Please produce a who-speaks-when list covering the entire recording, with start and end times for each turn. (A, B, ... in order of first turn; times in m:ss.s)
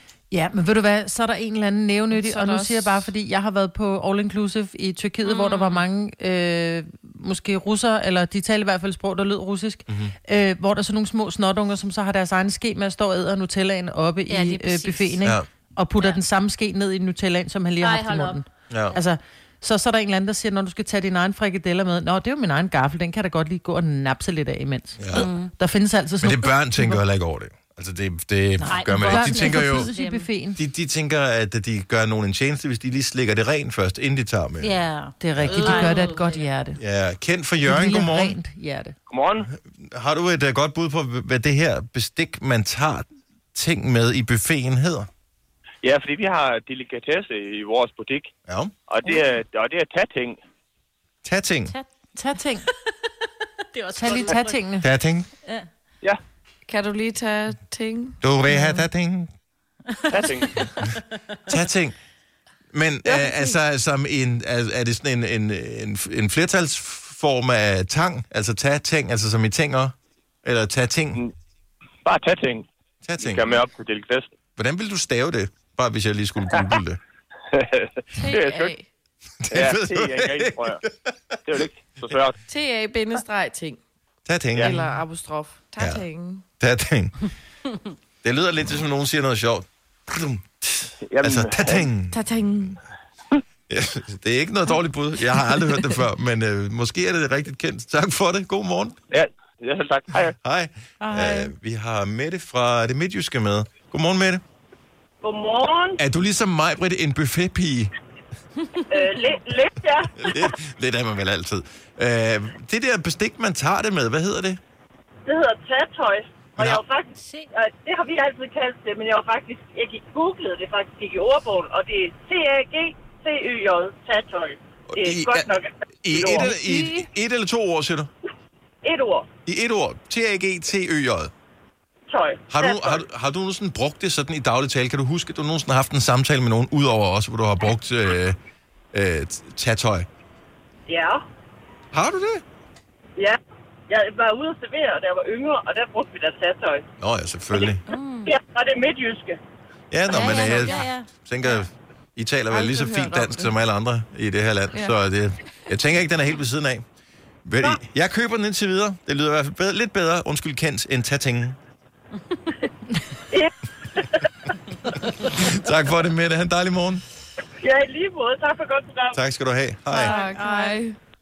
0:00.3-0:27.0 A
0:02.1-0:03.1 B
0:05.2-0:05.9 C
0:09.9-0:10.1 D
0:14.3-0:15.2 C
0:17.8-0:18.4 C
0:18.7-0:19.0 D
0:25.0-0:25.3 D
0:25.2-0:25.5 C
0:26.2-0:29.9 D
0:28.6-0:30.6 A
0:28.6-0:30.3 C
0:30.6-0:34.8 D
0:34.6-0:36.5 C
0:35.2-0:36.8 A
0:35.4-0:35.7 D
0:36.8-0:38.4 D
0:37.6-0:39.0 A
0:39.1-0:39.5 E
0:39.5-0:45.1 D
0:45.8-0:48.3 E
0:48.9-0:50.4 E
0:51.2-0:51.7 D
0:52.1-0:52.7 A
0:53.7-0:54.8 C
0:53.9-0:54.9 A
0:54.8-0:55.3 D
0:56.7-0:58.2 B
0:58.2-0:59.3 D
1:00.1-1:00.7 E
1:00.1-1:00.8 C
1:01.5-1:02.0 D
1:02.7-1:11.2 D
1:03.1-1:03.5 B
1:12.0-1:12.7 E
1:13.0-1:13.5 D
1:13.2-1:14.3 E
1:14.6-1:17.0 D
1:17.5-1:18.8 E
1:18.2-1:18.9 B
1:19.4-1:21.6 D
1:19.5-1:20.8 E
1:21.4-1:22.4 E
1:22.5-1:23.8 B
1:24.3-1:24.8 D
1:24.5-1:24.8 E
1:24.6-1:26.4 B
1:25.8-1:26.0 D
1:26.6-1:27.3 D
1:28.2-1:32.2 D
1:31.0-1:31.9 E
1:32.0-1:32.8 B
1:33.7-1:39.0 D
1:39.1-1:40.4 E
1:40.4-1:44.4 D
1:41.0-1:41.5 A
1:45.2-1:46.0 F
1:46.0-1:47.9 D
1:48.9-1:50.5 F
1:50.2-1:54.6 D
1:55.3-2:06.9 F
1:56.6-1:56.8 D
1:57.2-1:57.5 C
2:04.9-2:05.5 D
2:06.0-2:08.1 D
2:08.8-2:09.3 F
2:09.5-2:11.3 D
2:12.1-2:13.0 F
2:12.5-2:18.4 D
2:18.9-2:20.1 D
2:20.9-2:21.2 F
2:21.9-2:22.4 D
2:23.9-2:26.8 F
2:27.0-2:27.8 D
2:27.9-2:28.4 C
2:28.3-2:29.4 F
2:29.9-2:36.8 D
2:30.1-2:31.1 C
2:32.5-2:33.5 B
2:37.4-2:41.6 D
2:43.3-2:44.3 F
2:45.2-2:47.0 D
2:47.6-2:49.2 F
2:49.1-2:50.2 D
2:49.9-2:51.0 B
2:50.1-2:50.8 A